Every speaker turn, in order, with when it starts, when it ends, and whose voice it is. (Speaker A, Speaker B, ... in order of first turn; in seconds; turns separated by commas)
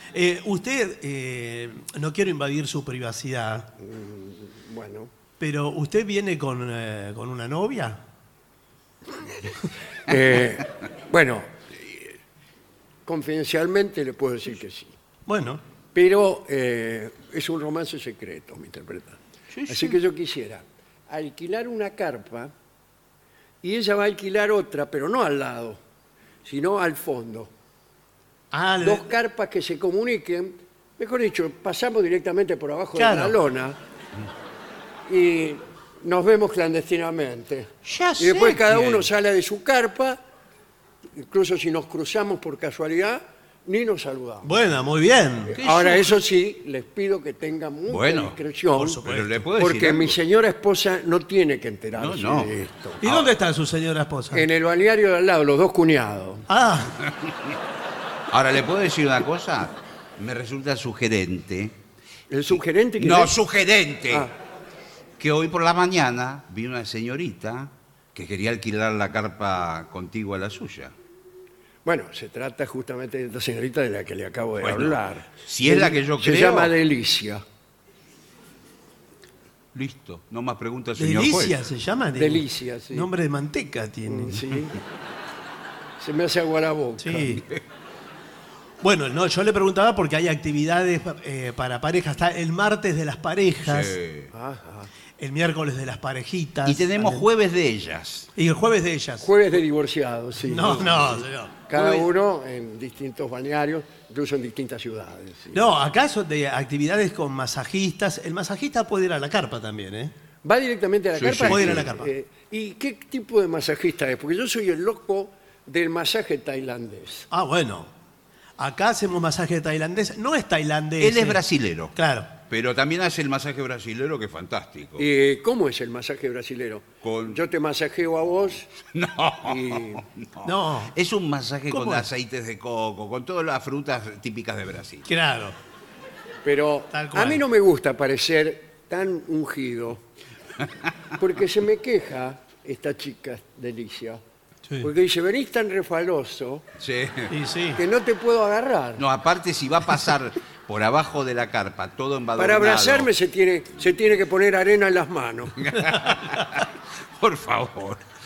Speaker A: 0.1-3.7, Speaker B: 3.8-5.1, Speaker A: 5.4-8.0, Speaker B: 10.1-12.2, Speaker B: 13.1-14.9, Speaker A: 15.3-15.6, Speaker B: 15.9-22.5, Speaker C: 19.5-20.0, Speaker B: 23.6-25.8, Speaker B: 26.4-27.5, Speaker A: 28.5-29.1, Speaker B: 28.8-33.8, Speaker A: 33.0-33.4, Speaker B: 35.1-40.2, Speaker C: 37.8-39.0, Speaker B: 41.2-44.5, Speaker A: 44.4-45.5, Speaker B: 45.5-49.0, Speaker C: 45.5-46.2, Speaker C: 47.9-48.4, Speaker A: 48.8-49.4, Speaker C: 49.0-50.2, Speaker B: 49.6-53.0, Speaker C: 52.0-53.3, Speaker A: 53.0-54.5, Speaker B: 54.3-56.5, Speaker A: 56.5-57.0, Speaker C: 57.0-57.6, Speaker C: 58.3-61.8, Speaker B: 62.3-63.4, Speaker C: 62.5-64.3, Speaker C: 65.2-70.9, Speaker B: 71.8-77.4, Speaker C: 74.6-76.7, Speaker C: 79.7-81.6, Speaker A: 81.0-84.7, Speaker B: 82.2-83.1, Speaker B: 84.1-84.8, Speaker B: 86.0-87.4, Speaker A: 87.0-87.4, Speaker A: 88.8-94.0, Speaker C: 93.6-94.3, Speaker B: 94.3-94.9, Speaker A: 95.2-97.3, Speaker C: 96.7-98.3, Speaker A: 98.4-99.3, Speaker B: 99.2-105.7, Speaker A: 100.4-101.6, Speaker C: 101.7-102.1, Speaker A: 105.5-110.1, Speaker B: 110.4-117.3, Speaker C: 111.2-111.9, Speaker A: 111.5-112.1, Speaker A: 117.3-117.9, Speaker A: 118.6-121.4, Speaker C: 121.0-125.1, Speaker A: 122.0-122.3, Speaker B: 125.0-128.7, Speaker C: 127.0-127.4, Speaker C: 128.9-135.1, Speaker B: 129.4-130.0, Speaker A: 130.4-130.9, Speaker A: 131.7-132.1, Speaker A: 135.1-135.6, Speaker B: 136.4-140.0, Speaker A: 136.9-137.4, Speaker B: 141.2-144.2, Speaker B: 144.8-146.7, Speaker C: 146.8-147.3, Speaker A: 147.3-147.8, Speaker B: 147.8-149.0, Speaker C: 149.0-153.1, Speaker B: 152.4-155.7, Speaker C: 155.6-158.0